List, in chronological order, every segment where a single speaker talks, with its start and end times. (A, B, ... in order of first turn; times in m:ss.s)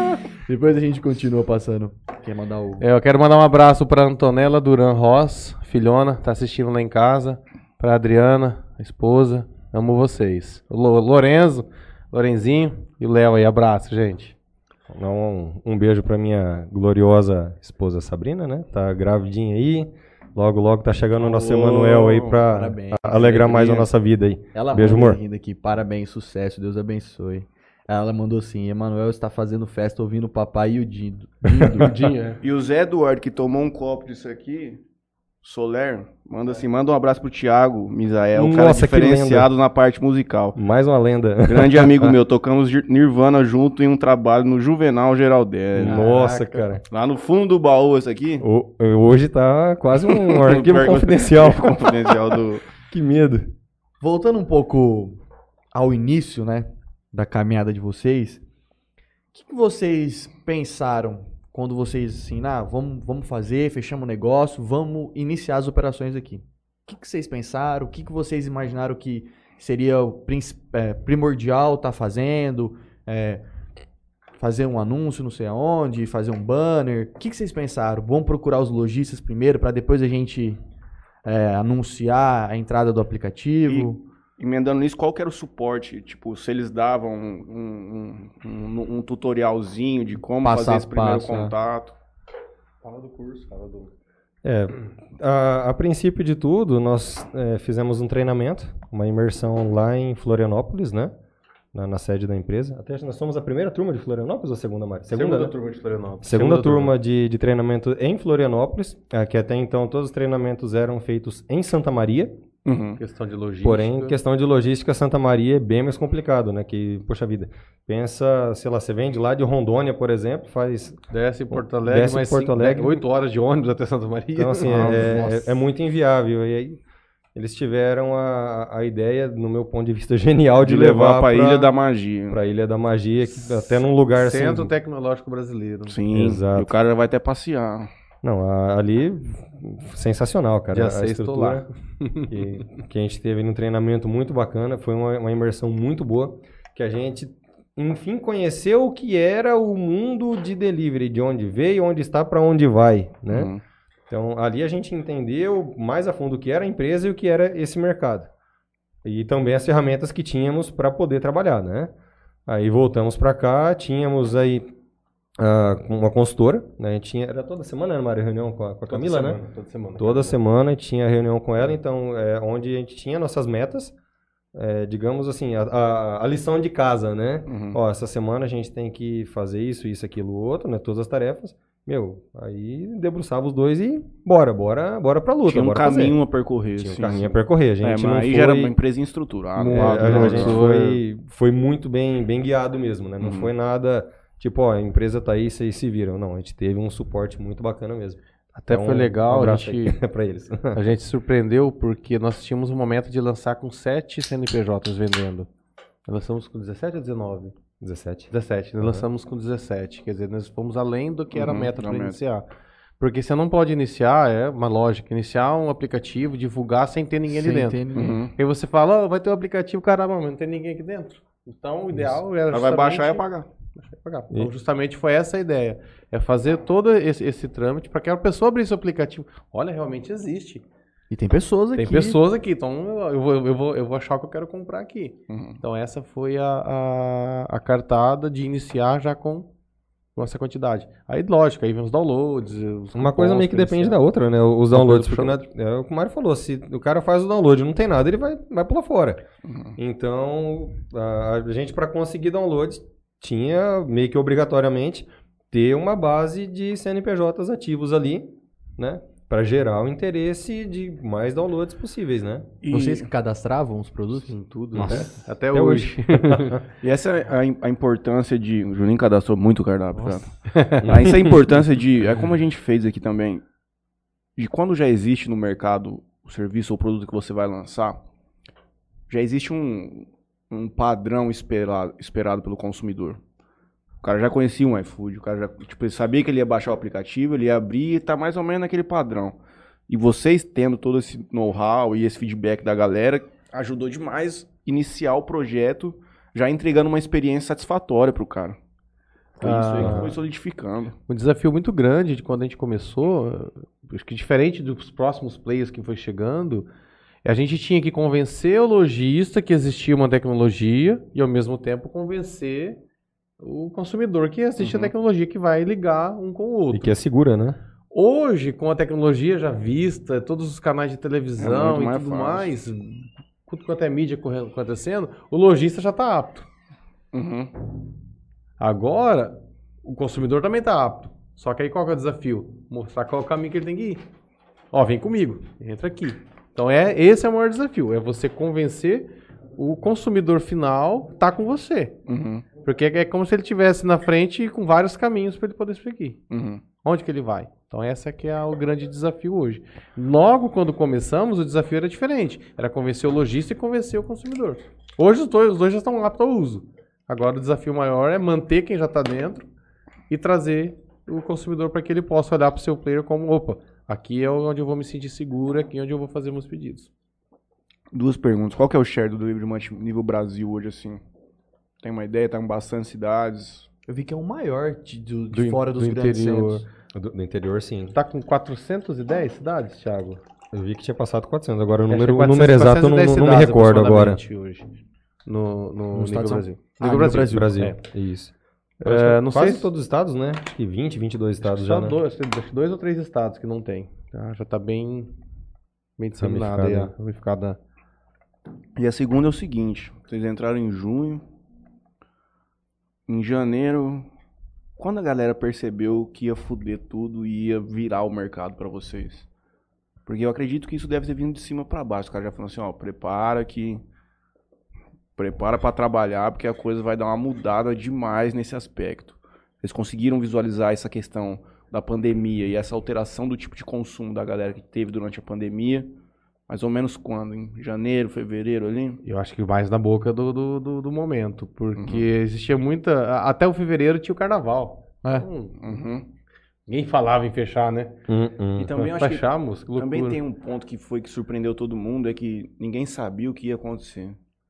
0:00.3-0:02.9 A
0:02.8-0:14.4 B
0:14.9-0:25.2 C
0:21.2-0:22.4 D
0:22.4-0:23.9 A
0:24.5-0:32.2 A
0:31.7-0:32.4 B
0:32.4-0:34.8 D
0:35.4-0:40.6 D
0:38.4-0:39.5 C
0:40.6-0:42.2 C
0:41.4-0:46.1 D
0:45.8-0:46.8 C
0:45.8-0:46.7 B
0:46.9-0:48.4 D
0:48.4-0:52.2 C
0:50.0-0:52.6 D
0:52.9-0:53.5 C
0:54.0-0:55.2 A
0:55.7-0:58.4 A
0:59.3-1:13.4 A
1:14.4-1:20.6 A
1:21.2-1:24.0 A
1:23.7-1:32.0 D
1:30.4-1:31.5 A
1:32.8-1:33.9 B
1:34.4-1:41.1 C
1:41.7-1:45.5 C
1:45.1-1:46.9 B
1:46.2-1:52.3 C
1:52.6-1:53.0 D
1:53.0-1:54.2 B
1:53.6-2:01.0 C
2:01.1-2:05.5 B
2:01.5-2:03.0 C
2:04.4-2:06.8 C
2:04.9-2:05.3 A
2:07.4-2:11.7 C
2:10.6-2:12.4 D
2:12.3-2:14.7 C
2:13.4-2:16.0 B
2:15.9-2:17.9 D
2:16.1-2:16.7 C
2:18.2-2:21.6 C
2:20.7-2:22.6 B
2:22.3-2:33.5 C
2:33.3-2:33.6 D
2:34.1-2:38.3 C
2:39.0-2:41.9 C
2:42.5-2:44.7 C
2:45.4-2:49.4 C
2:48.9-2:50.4 B
2:50.0-2:53.9 C
2:54.5-3:06.2 C
2:57.5-2:57.8 D
3:05.4-3:10.6 D
3:06.8-3:08.7 C
3:09.6-3:11.0 B
3:09.7-3:20.8 C
3:13.2-3:13.5 D
3:18.6-3:20.0 B
3:20.7-3:25.5 B
3:26.1-3:27.5 B
3:27.8-3:29.1 C
3:28.3-3:32.4 B
3:31.3-3:32.2 D
3:33.0-3:43.2 B
3:37.3-3:38.2 A
3:38.0-3:38.3 D
3:42.5-3:43.5 D
3:43.8-3:50.6 B
3:51.1-3:52.2 A
3:51.8-3:59.5 B
3:55.3-3:55.6 D
4:00.2-4:04.0 B
4:03.0-4:09.2 C
4:04.7-4:05.4 B
4:09.4-4:09.8 D
4:09.8-4:22.5 C
4:22.6-4:23.1 D
4:22.7-4:25.3 A
4:24.4-4:26.6 B
4:24.8-4:26.6 C
4:26.8-4:33.4 D
4:30.5-4:30.9 B
4:30.8-4:31.4 C
4:34.4-4:38.0 D
4:39.1-4:43.2 D
4:44.0-4:58.6 D
4:59.4-5:01.0 D
4:59.4-5:00.2 B
4:59.8-5:00.1 C
5:01.1-5:06.7 B
5:07.2-5:12.8 B
5:13.4-5:17.0 B
5:14.6-5:14.9 D
5:16.7-5:17.6 C
5:17.9-5:26.5 B
5:21.4-5:22.5 D
5:27.1-5:27.5 D
5:28.6-5:34.0 B
5:34.7-5:42.0 B
5:42.1-5:42.4 D
5:42.6-5:46.2 B
5:46.3-5:46.6 D
5:46.8-5:59.4 B
6:00.1-6:06.9 B
6:07.9-6:11.0 D
6:11.8-6:13.7 D
6:13.9-6:16.7 A
6:15.3-6:16.6 B
6:16.9-6:18.0 C
6:17.9-6:20.2 B
6:20.5-6:24.2 C
6:21.9-6:24.7 B
6:25.3-6:27.8 B
6:25.9-6:27.7 A
6:27.2-6:32.0 C
6:28.8-6:29.7 B
6:31.4-6:35.1 B
6:36.0-6:37.6 B
6:36.2-6:36.9 C
6:38.8-6:41.2 D
6:43.1-6:44.1 D
6:44.8-6:49.3 D
6:50.1-6:53.8 D
6:55.2-7:05.9 D
7:06.5-7:09.0 D
7:09.0-7:15.6 B
7:11.8-7:12.0 D
7:15.6-7:16.1 D
7:16.7-7:18.0 B
7:18.1-7:18.7 C
7:18.6-7:24.2 D
7:18.8-7:20.2 B